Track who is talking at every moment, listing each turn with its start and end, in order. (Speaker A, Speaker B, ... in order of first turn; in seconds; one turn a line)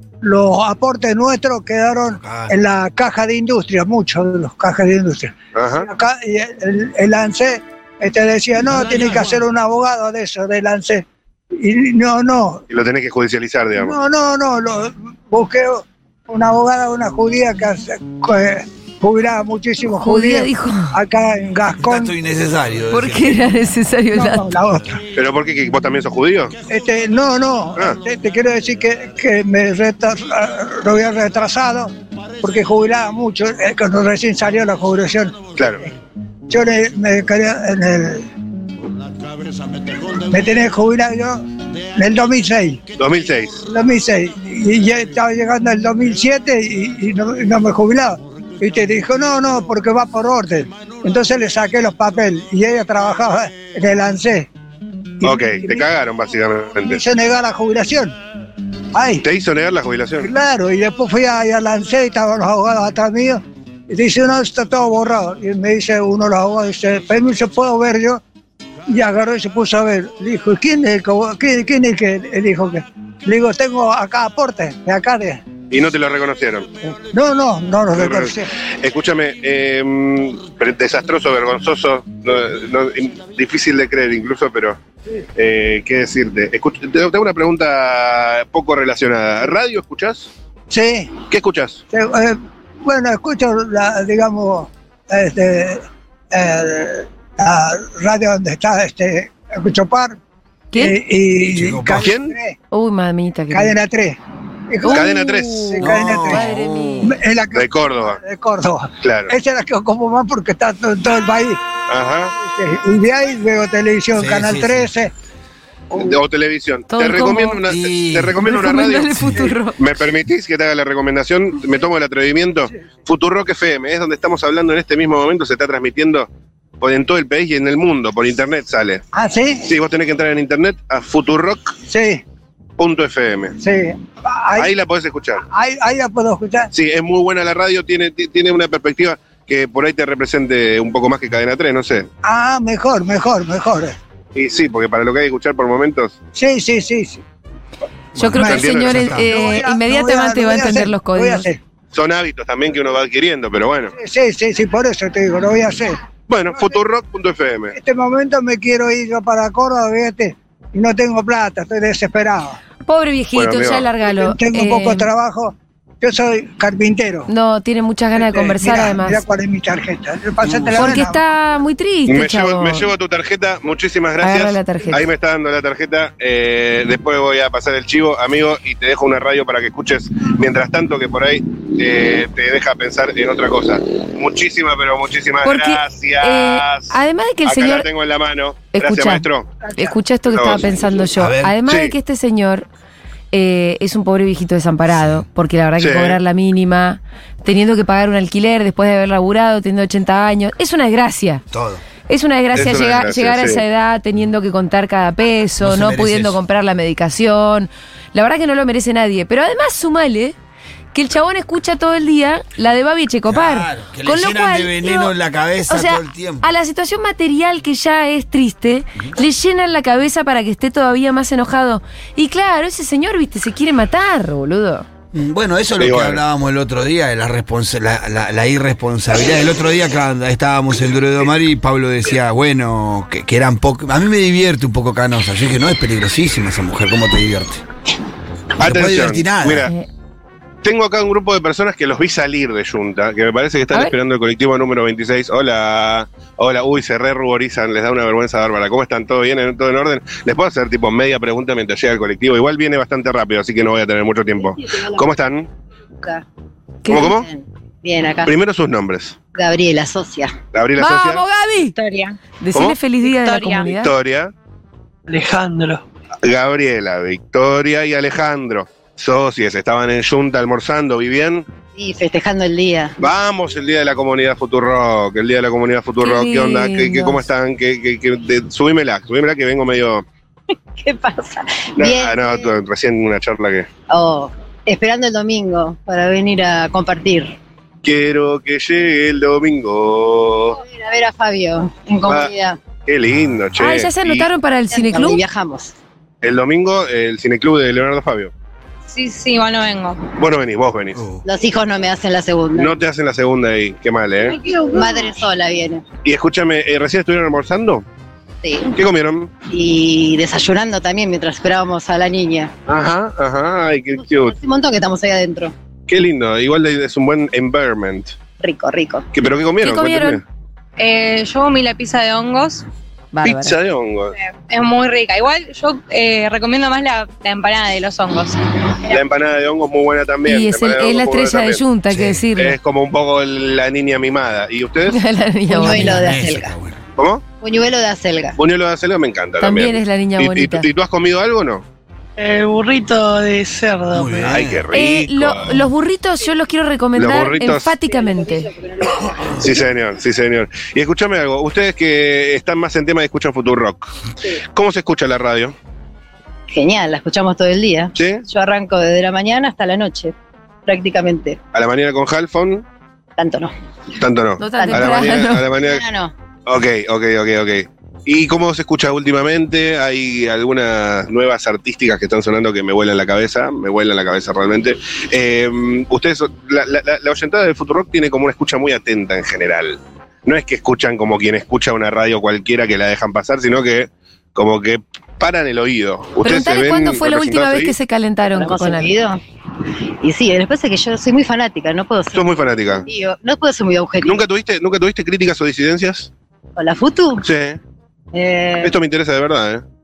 Speaker A: 0.2-12.6
Speaker B: 2.2-2.5
Speaker C: 5.5-5.9
Speaker C: 12.7-13.9
Speaker A: 13.8-22.1
Speaker D: 20.0-20.9
Speaker B: 21.8-23.4
Speaker D: 22.9-24.4
Speaker A: 24.1-25.0
Speaker C: 25.1-26.5
Speaker A: 26.7-35.4
Speaker C: 35.6-35.8
Speaker A: 36.5-38.3
Speaker A: 40.2-41.4
Speaker A: 41.9-42.8
Speaker C: 43.0-43.6
Speaker A: 43.7-54.5
Speaker A: 55.2-55.8
Speaker C: 55.2-57.0
Speaker A: 56.8-58.1
Speaker A: 58.9-59.2
Speaker C: 59.2-60.3
Speaker A: 60.2-68.2
Speaker A: 68.9-75.4
Speaker C: 75.7-76.7
Speaker A: 76.8-78.5
Speaker C: 77.9-84.8
Speaker C: 85.3-90.3
Speaker A: 90.7-91.2
Speaker C: 91.3-91.8
Speaker A: 91.9-100.2
Speaker D: 100.7-101.0
Speaker A: 100.7-102.6
Speaker B: 101.5-102.1
Speaker C: 102.0-102.3
Speaker D: 102.7-103.8
Speaker A: 103.5-104.2
Speaker A: 104.7-106.5
Speaker D: 104.8-107.1
Speaker C: 104.9-105.7
Speaker B: 105.8-107.1
Speaker A: 107.0-111.6
Speaker C: 107.5-108.2
Speaker C: 109.0-109.3
Speaker C: 111.9-112.3
Speaker A: 112.4-115.1
Speaker B: 114.1-114.9
Speaker C: 115.9-119.2
Speaker D: 116.9-117.6
Speaker B: 117.7-118.4
Speaker D: 118.4-119.8
Speaker B: 119.2-119.5
Speaker C: 119.8-126.3
Speaker C: 126.8-129.0
Speaker A: 129.1-129.7
Speaker C: 129.6-131.8
Speaker A: 131.9-132.2
Speaker C: 132.8-133.6
Speaker A: 133.6-134.7
Speaker C: 134.6-135.4
Speaker A: 135.5-136.7
Speaker C: 136.7-142.1
Speaker A: 142.2-143.9
Speaker C: 144.3-146.1
Speaker A: 146.3-147.2
Speaker B: 148.2-149.2
Speaker D: 148.2-151.4
Speaker C: 148.4-149.2
Speaker A: 148.4-151.6
Speaker C: 151.9-153.9
Speaker A: 154.0-156.8
Speaker C: 156.3-157.8
Speaker A: 157.7-162.6
Speaker D: 162.8-165.1
Speaker C: 163.3-163.8
Speaker A: 164.0-167.3
Speaker D: 167.3-169.2
Speaker A: 168.2-171.2
Speaker B: 170.4-171.0
Speaker D: 170.7-172.9
Speaker C: 172.1-189.5
Speaker D: 174.2-175.0
Speaker D: 185.4-187.9
Speaker D: 188.7-189.2
Speaker A: 189.6-190.0
Speaker D: 189.8-192.7
Speaker C: 190.3-190.7
Speaker B: 191.2-191.6
Speaker C: 191.7-191.9
Speaker D: 193.3-201.4
Speaker B: 194.9-195.2
Speaker C: 195.8-196.2
Speaker B: 201.5-201.8
Speaker D: 202.1-210.3
Speaker C: 202.5-203.6
Speaker B: 205.6-206.4
Speaker D: 210.9-215.1
Speaker B: 213.3-216.4
Speaker D: 215.7-224.8
Speaker B: 225.1-237.6
Speaker C: 225.8-226.2
Speaker B: 238.6-239.7
Speaker C: 238.6-239.7
Speaker C: 240.6-255.5
Speaker E: 254.7-255.0
Speaker D: 256.8-257.1
Speaker E: 256.9-258.3
Speaker C: 256.9-257.3
Speaker C: 258.2-259.2
Speaker E: 259.3-260.3
Speaker C: 260.5-261.2
Speaker D: 260.8-261.7
Speaker F: 261.7-262.2
Speaker D: 262.4-263.9
Speaker F: 263.0-263.7
Speaker C: 263.6-264.3
Speaker G: 265.1-265.8
Speaker C: 266.2-271.4
Speaker E: 271.8-272.9
Speaker C: 273.0-280.0
Speaker D: 276.0-277.2
Speaker E: 280.8-282.5
Speaker C: 281.8-283.7
Speaker E: 283.9-287.4
Speaker C: 287.8-290.6
Speaker E: 290.6-292.6
Speaker C: 292.1-292.3
Speaker C: 292.8-294.3
Speaker B: 293.1-293.6
Speaker D: 293.6-295.2
Speaker E: 294.7-295.7
Speaker C: 296.2-298.3
Speaker F: 298.9-300.1
Speaker C: 300.2-301.0
Speaker B: 300.9-301.2
Speaker E: 301.2-302.8
Speaker C: 302.6-304.4
Speaker E: 304.6-305.8
Speaker C: 306.0-307.8
Speaker E: 308.4-308.7
Speaker C: 308.7-309.3
Speaker E: 309.5-312.5
Speaker C: 312.7-314.4
Speaker E: 314.1-315.5
Speaker C: 315.9-318.1
Speaker E: 318.4-319.1
Speaker C: 319.1-320.2
Speaker D: 319.6-320.2
Speaker F: 320.8-322.6
Speaker D: 323.1-323.6
Speaker C: 323.2-324.1
Speaker F: 324.3-328.8
Speaker C: 328.9-331.6
Speaker D: 330.2-332.6
Speaker B: 331.9-332.2
Speaker C: 332.4-335.0
Speaker D: 334.9-336.1
Speaker E: 335.5-336.5
Speaker B: 335.6-336.8
Speaker C: 337.0-337.2
Speaker E: 337.4-338.4
Speaker C: 338.4-341.6
Speaker D: 339.4-340.6
Speaker G: 342.2-344.4
Speaker B: 343.9-344.6
Speaker C: 344.3-345.7
Speaker D: 344.7-348.5
Speaker C: 346.9-347.8
Speaker C: 349.4-353.9
Speaker C: 354.5-355.5
Speaker E: 356.5-360.1
Speaker C: 357.9-358.2
Speaker E: 360.6-361.4
Speaker C: 361.5-362.6
Speaker E: 363.2-363.5
Speaker C: 364.0-365.8
Speaker D: 364.4-365.4
Speaker E: 364.6-366.1
Speaker C: 366.4-387.7
Speaker D: 386.2-388.9
Speaker E: 388.3-394.2
Speaker C: 392.1-392.9
Speaker C: 394.0-396.1
Speaker E: 396.6-397.2
Speaker C: 397.2-397.6
Speaker E: 398.1-398.8
Speaker C: 398.6-399.6